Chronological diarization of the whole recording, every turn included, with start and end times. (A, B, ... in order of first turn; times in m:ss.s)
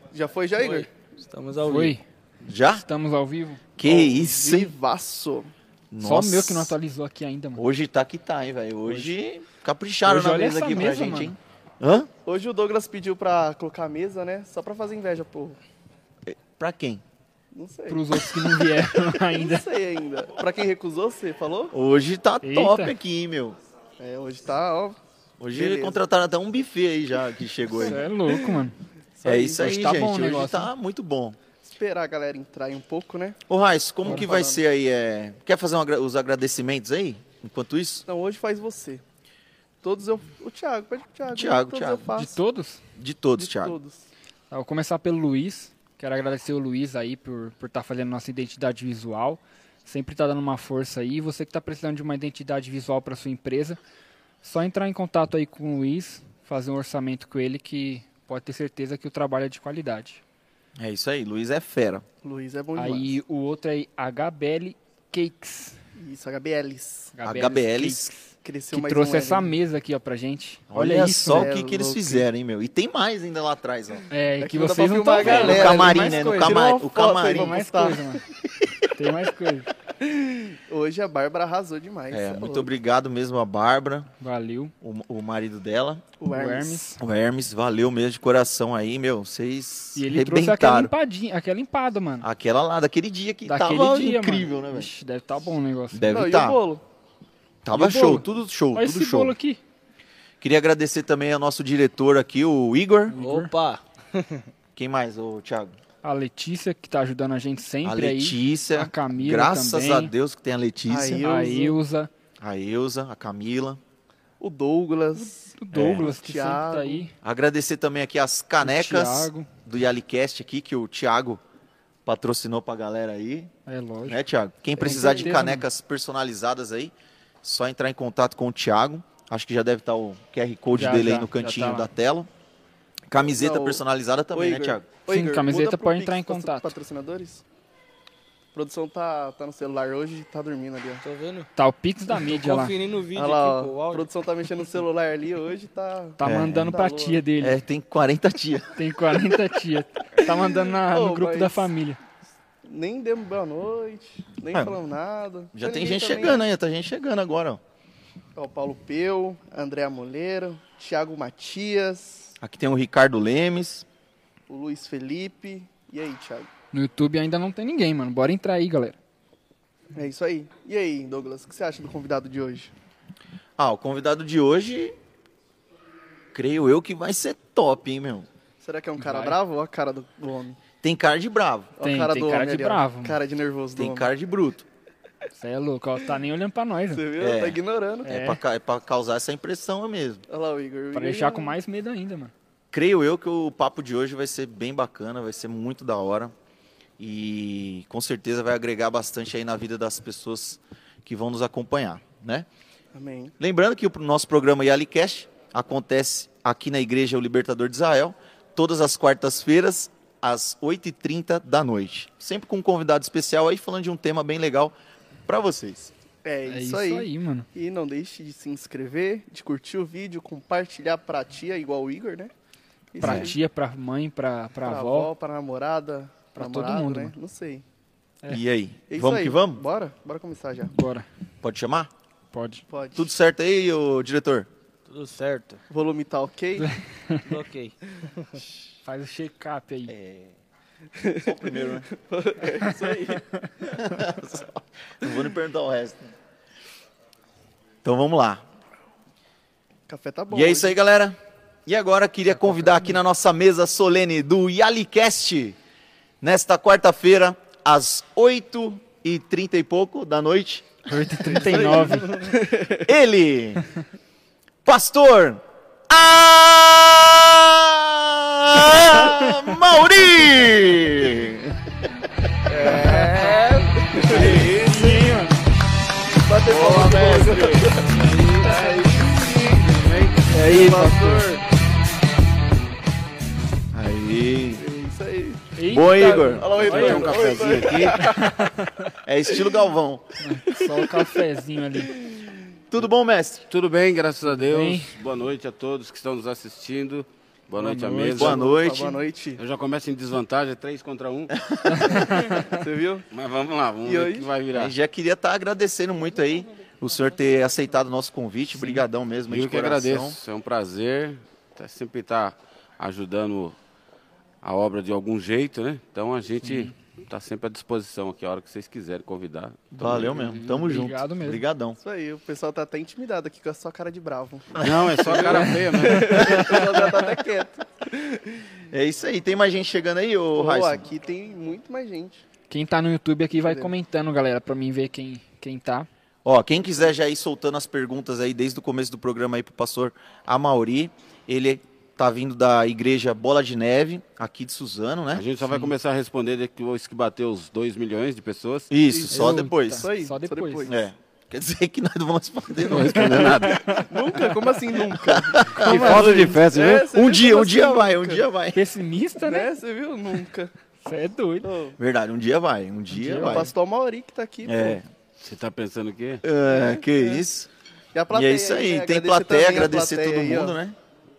0:00.1-0:00.9 A
0:00.5-0:02.0 B
0:01.6-0:02.0 C
0:02.4-0:02.8 D
0:02.7-0:03.6 C
0:03.8-0:04.7 D
0:03.8-0:05.5 A
0:05.9-0:06.7 D
0:06.0-0:07.6 C
0:07.5-0:12.1 D
0:08.8-0:09.1 C
0:10.0-0:11.4 C
0:12.2-0:15.6 A
0:16.3-0:17.0 D
0:17.5-0:18.0 A
0:17.9-0:19.7 C
0:19.3-0:21.7 A
0:21.7-0:23.6 D
0:22.4-0:22.9 C
0:24.0-0:25.0 A
0:25.4-0:28.0 D
0:25.5-0:26.0 A
0:27.7-0:28.8 C
0:29.2-0:29.8 A
0:29.2-0:31.4 D
0:29.6-0:30.7 C
0:31.6-0:33.4 A
0:33.5-0:38.0 D
0:34.0-0:34.6 A
0:38.0-0:39.0 A
0:39.8-0:42.4 A
0:41.3-0:42.1 D
0:42.2-0:42.8 C
0:43.0-0:43.8 D
0:43.4-0:44.1 A
0:44.5-0:53.8 C
0:54.4-1:00.2 C
1:00.8-1:02.0 D
1:02.2-1:03.2 A
1:02.8-1:05.8 C
1:06.0-1:07.1 A
1:07.1-1:11.5 C
1:07.2-1:08.1 D
1:08.4-1:09.5 A
1:10.7-1:14.1 D
1:11.2-1:12.3 A
1:14.1-1:18.3 C
1:14.4-1:18.0 A
1:15.2-1:17.6 D
1:18.9-1:19.7 C
1:20.0-1:22.7 A
1:22.1-1:24.1 D
1:24.2-1:24.7 C
1:24.8-1:26.0 D
1:26.2-1:26.8 A
1:26.3-1:27.0 C
1:27.0-1:30.9 D
1:29.9-1:32.3 C
1:32.2-1:34.9 D
1:33.4-1:36.1 C
1:35.9-1:36.6 D
1:36.1-1:36.8 A
1:37.6-1:39.3 D
1:37.7-1:39.6 C
1:40.4-1:43.1 D
1:43.1-1:43.5 C
1:43.2-1:44.5 B
1:44.8-1:45.7 D
1:46.0-1:50.1 C
1:47.8-1:51.2 D
1:50.9-1:51.8 A
1:51.2-1:52.1 C
1:52.4-1:53.8 D
1:54.4-1:57.0 A
1:55.2-1:57.1 C
1:55.7-1:56.1 D
1:57.2-2:01.4 D
1:58.6-1:59.5 C
2:02.0-2:03.5 D
2:03.6-2:04.2 C
2:04.1-2:12.3 D
2:04.8-2:05.4 A
2:04.8-2:05.6 C
2:10.7-2:11.9 C
2:13.1-2:14.9 D
2:13.3-2:13.8 A
2:14.3-2:17.4 A
2:15.1-2:16.7 C
2:18.5-2:21.0 A
2:21.0-2:21.5 B
2:21.5-2:22.8 C
2:22.1-2:24.8 B
2:23.1-2:27.2 A
2:26.2-2:27.6 C
2:26.2-2:26.8 D
2:27.4-2:28.8 D
2:28.7-2:32.0 C
2:30.9-2:31.7 A
2:32.6-2:36.4 A
2:35.5-2:37.6 D
2:38.4-2:42.4 A
2:42.4-2:43.8 D
2:44.5-2:46.5 A
2:46.7-2:49.0 C
2:49.9-2:52.7 A
2:53.6-2:54.9 D
2:56.3-2:58.3 D
2:58.6-3:00.6 A
2:59.0-2:59.4 C
3:00.8-3:01.7 D
3:01.8-3:04.1 A
3:01.8-3:03.2 C
3:03.8-3:04.6 D
3:05.3-3:07.1 C
3:06.9-3:08.1 A
3:07.2-3:10.2 D
3:08.0-3:08.4 C
3:10.3-3:11.5 A
3:10.9-3:12.3 C
3:12.7-3:16.3 D
3:17.0-3:22.5 D
3:22.9-3:23.3 A
3:23.4-3:34.7 D
3:35.2-3:35.9 D
3:36.2-3:42.3 A
3:36.4-3:37.5 C
3:42.9-3:43.4 A
3:43.0-3:45.1 C
3:43.0-3:43.3 D
3:44.6-3:47.6 A
3:46.3-3:47.1 C
3:48.3-3:49.6 D
3:48.9-3:50.8 A
3:50.7-3:51.1 C
3:51.4-3:51.9 D
3:52.3-3:52.6 C
3:52.7-3:53.1 A
3:52.9-3:54.5 D
3:54.8-3:55.6 B
3:55.7-3:56.7 A
3:56.6-3:57.3 C
3:57.2-3:58.4 B
3:58.8-3:59.9 C
3:59.9-4:00.4 D
4:01.0-4:03.3 A
4:01.2-4:01.9 D
4:03.7-4:06.1 D
4:07.8-4:08.4 D
4:09.9-4:10.8 A
4:10.3-4:15.6 D
4:16.2-4:20.7 D
4:20.9-4:22.2 C
4:21.2-4:22.8 A
4:22.8-4:23.6 D
4:24.6-4:31.7 D
4:32.5-4:34.5 A
4:32.9-4:34.3 E
4:34.0-4:35.1 D
4:34.3-4:35.4 C
4:36.2-4:39.6 A
4:36.4-4:37.7 D
4:37.9-4:40.3 E
4:40.3-4:41.4 A
4:40.3-4:41.3 D
4:43.7-4:44.6 D
4:44.6-4:45.5 A
4:45.5-4:47.2 C
4:45.7-4:46.6 D
4:46.4-4:48.4 A
4:46.5-4:48.1 E
4:47.9-4:48.8 C
4:49.0-4:50.1 D
4:49.3-4:49.6 A
4:50.2-4:52.0 C
4:51.8-4:52.4 A
4:52.7-4:53.5 D
4:53.5-4:58.4 E
4:54.4-4:55.0 C
4:57.5-4:58.4 C
4:58.2-4:59.0 D
4:58.2-4:59.4 A
4:59.4-5:01.3 E
5:01.4-5:01.9 D
5:01.6-5:02.6 C
5:02.0-5:03.1 A
5:03.1-5:04.7 E
5:03.8-5:04.3 A
5:04.5-5:10.2 D
5:08.5-5:08.8 C
5:09.3-5:13.6 E
5:14.4-5:20.3 E
5:16.4-5:16.7 C
5:19.7-5:21.8 D
5:20.2-5:21.4 C
5:21.8-5:28.4 A
5:24.5-5:25.5 D
5:24.6-5:26.5 E
5:25.5-5:26.6 C
5:26.1-5:26.5 D
5:28.7-5:30.8 D
5:30.3-5:32.2 A
5:32.5-5:35.9 C
5:33.4-5:33.7 A
5:36.2-5:45.2 D
5:45.1-5:48.7 E
5:48.7-5:49.9 D
5:48.9-5:50.8 A
5:49.1-5:50.7 C
5:50.6-5:53.6 D
5:52.6-5:53.6 E
5:52.8-5:53.9 C
5:53.7-5:58.2 A
5:55.0-5:58.6 D
5:55.6-5:56.4 C
5:58.5-5:59.5 C
5:59.2-6:00.5 A
6:00.8-6:01.5 C
6:01.4-6:01.8 A
6:01.8-6:03.5 D
6:02.9-6:03.5 C
6:03.2-6:04.8 A
6:04.4-6:04.9 D
6:05.2-6:06.2 E
6:06.2-6:07.5 D
6:06.5-6:07.2 A
6:07.9-6:10.6 A
6:08.1-6:10.8 D